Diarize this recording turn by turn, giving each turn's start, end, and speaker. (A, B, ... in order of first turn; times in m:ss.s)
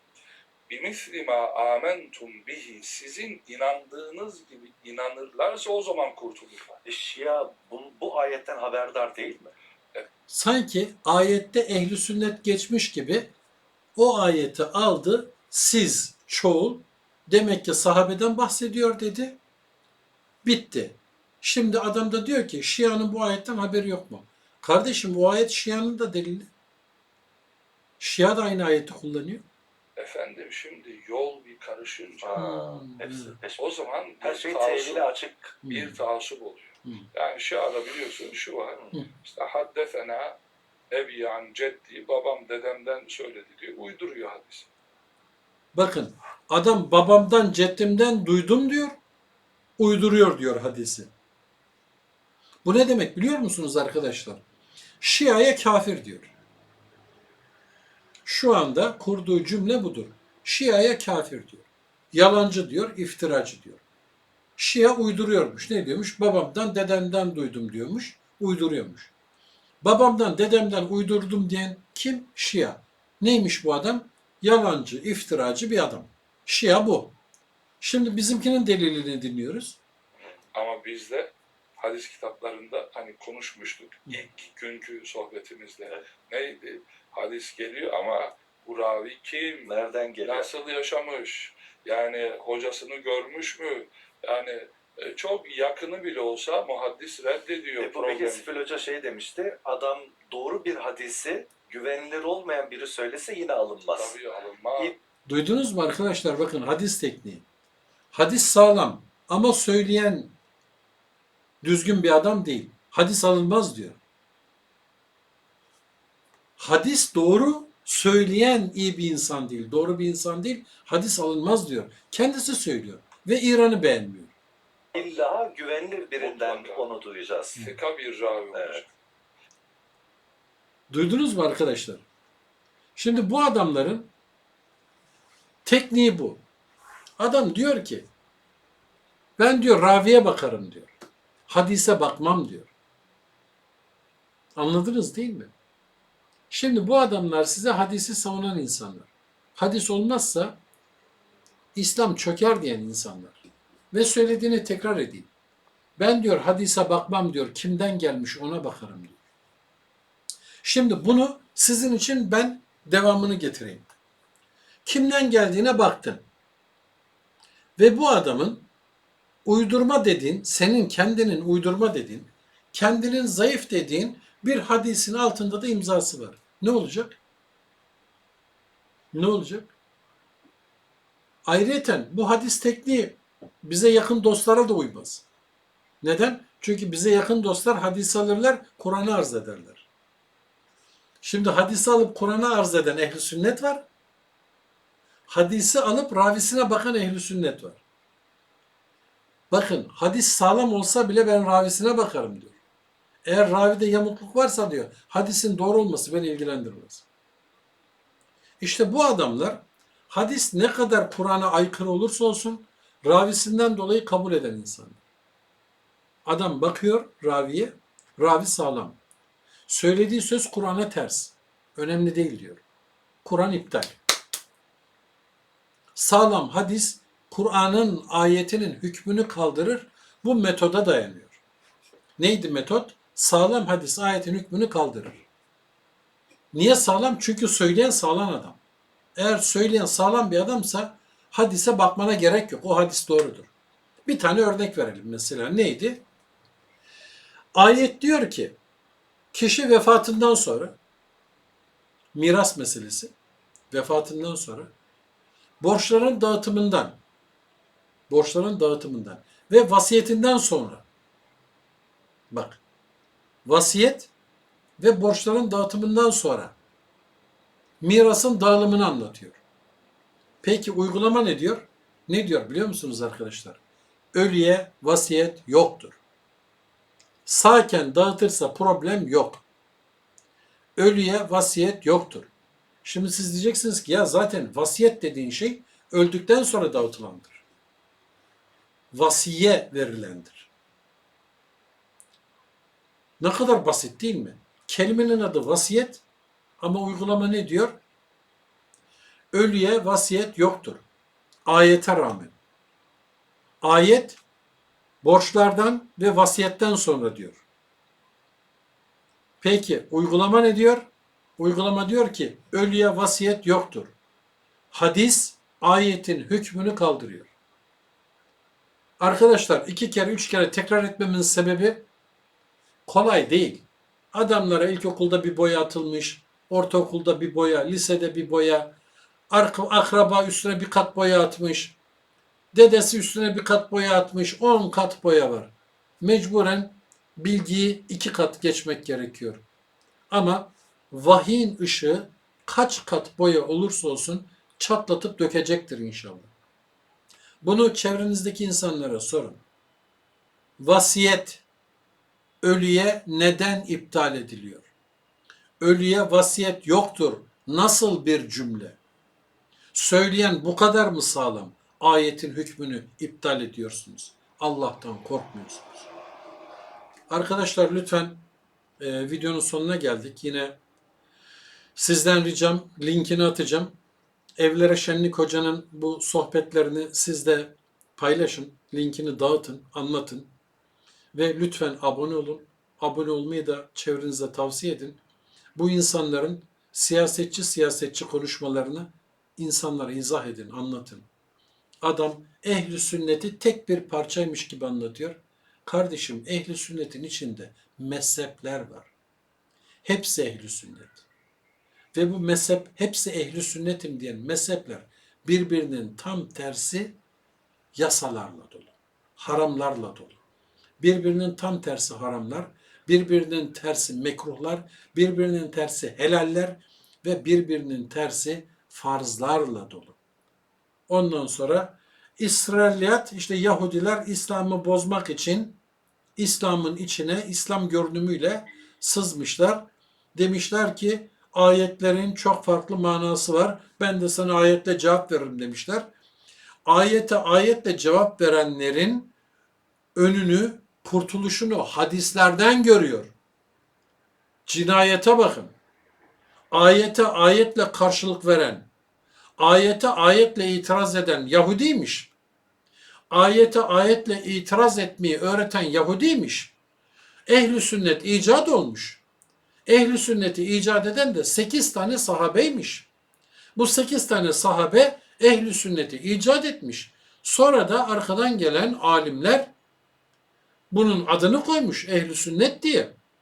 0:00.7-0:06.8 A
0:06.8-0:09.5 B
0:10.3-0:13.3 C
0:14.0-0:19.4 C
0:20.4-0:26.5 C
0:28.0-0:29.4 C
0:30.0-0:32.5 A
0:32.2-0:35.6 B
0:32.4-0:33.4 C
0:33.6-0:35.1 A
0:35.6-0:40.4 A
0:35.6-0:36.0 C
0:40.9-0:44.7 A
0:45.7-0:49.0 C
0:49.8-0:51.1 C
0:52.6-0:54.4 C
0:55.0-0:56.3 C
0:58.2-1:03.8 C
1:04.6-1:09.1 C
1:09.8-1:17.2 C
1:17.8-1:19.8 C
1:20.5-1:29.7 A
1:29.7-1:30.5 B
1:30.2-1:38.4 A
1:37.8-1:44.2 B
1:44.0-1:44.9 A
1:45.3-1:47.5 C
1:48.1-1:50.4 C
1:51.6-1:54.0 C
1:56.6-2:04.3 C
2:04.9-2:07.7 B
2:06.2-2:06.9 A
2:07.6-2:08.9 A
2:08.5-2:08.8 B
2:10.9-2:12.0 C
2:13.0-2:14.1 C
2:15.6-2:16.4 C
2:17.2-2:18.1 C
2:19.4-2:20.9 C
2:21.5-2:22.7 C
2:24.6-2:25.5 C
2:26.5-2:30.6 C
2:31.8-2:33.4 C
2:33.9-2:35.3 C
2:36.0-2:39.2 C
2:40.6-2:43.9 C
2:44.8-2:46.3 C
2:47.8-2:48.7 C
2:49.4-2:57.2 C
2:59.1-2:59.7 C
3:01.4-3:05.2 C
3:06.0-3:09.9 C
3:11.2-3:13.9 C
3:15.3-3:17.8 C
3:19.5-3:22.6 C
3:23.2-3:27.1 C
3:28.6-3:35.0 C
3:36.2-3:39.0 C
3:39.7-3:42.6 C
3:43.2-3:44.0 C
3:46.0-3:51.4 C
3:52.2-3:55.3 C
3:56.5-3:58.6 C
3:59.2-4:03.5 C
4:04.1-4:06.0 C
4:07.6-4:08.6 C
4:09.3-4:10.8 C
4:12.1-4:13.1 C
4:13.7-4:14.7 C
4:15.6-4:17.0 C
4:18.1-4:20.8 C
4:22.3-4:22.6 C
4:23.4-4:24.1 C
4:24.8-4:26.6 C
4:27.8-4:29.4 C
4:30.4-4:33.6 C
4:34.1-4:36.0 C
4:37.3-4:39.4 C
4:40.8-4:42.3 C
4:42.8-4:47.4 C
4:48.9-4:50.5 C
4:53.2-4:56.0 C
4:56.6-4:57.8 C
4:59.3-5:00.8 C
5:01.4-5:02.4 C
5:03.6-5:04.2 C
5:05.0-5:07.4 C
5:09.4-5:13.9 C
5:14.7-5:17.3 C
5:19.0-5:21.9 C
5:22.9-5:28.8 C
5:29.3-5:31.8 C
5:32.5-5:39.4 C
5:40.1-5:46.3 C
5:47.4-5:49.4 C
5:50.6-5:51.4 C
5:52.4-5:54.7 C
5:55.6-5:58.8 C
5:59.7-6:05.9 C
6:07.1-6:08.3 C
6:08.8-6:10.6 C
6:11.8-6:13.8 C
6:14.4-6:20.3 C
6:21.1-6:25.0 C
6:25.6-6:31.1 C
6:31.8-6:38.9 C
6:39.8-6:41.0 C
6:41.9-6:47.0 C
6:47.8-6:50.2 C
6:50.8-7:00.0 C
7:00.9-7:05.6 C
7:06.2-7:15.9 C
7:16.6-7:19.1 C
7:20.0-7:23.1 C
7:24.5-7:25.6 C
7:26.5-7:28.7 C
7:29.4-7:32.1 C
7:33.1-7:36.5 C
7:37.3-7:39.0 C
7:39.7-7:42.9 C
7:43.6-7:49.5 C
7:50.7-7:53.0 C